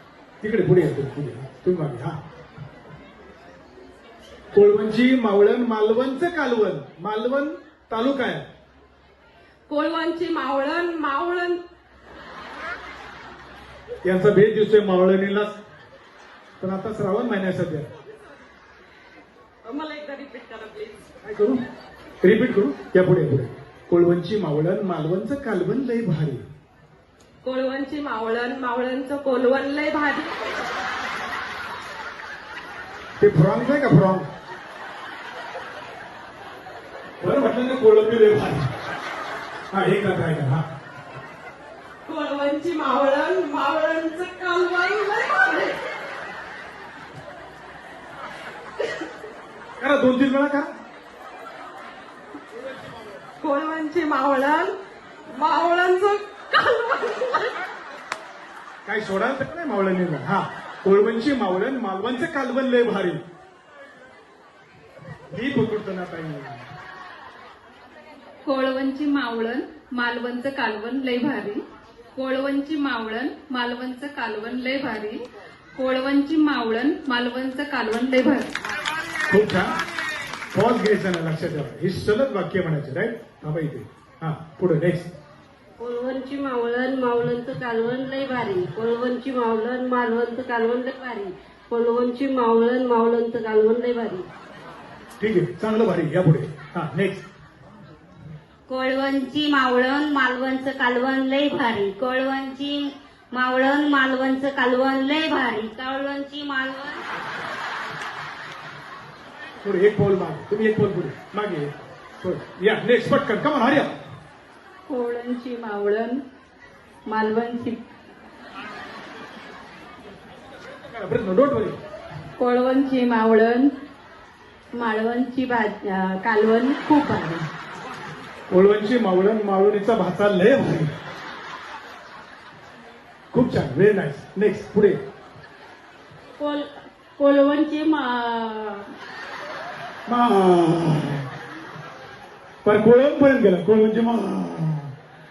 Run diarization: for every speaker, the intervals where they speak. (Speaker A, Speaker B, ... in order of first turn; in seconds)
Speaker A: 0.4-2.2, 4.5-8.4, 14.0-15.6, 16.6-17.9, 21.2-21.6, 22.2-26.4, 33.2-34.3, 37.2-38.7, 39.7-40.6, 49.8-50.7, 58.9-63.2, 65.3-66.7, 79.3-79.7, 80.5-85.1, 95.2-97.2, 109.6-114.0, 120.9-121.8, 128.5-130.9, 133.3-135.0, 140.1-141.3, 142.6-144.9
Speaker B: 9.7-11.6, 19.6-21.0, 27.4-30.5, 42.1-45.8, 53.4-54.8, 55.3-57.5
Speaker C: 68.5-71.6, 72.2-75.2, 75.8-78.5, 114.9-116.2, 117.1-117.8, 122.4-123.7, 124.8-127.5, 138.3-138.8
Speaker D: 85.8-94.3, 137.2-138.1
Speaker E: 98.7-107.0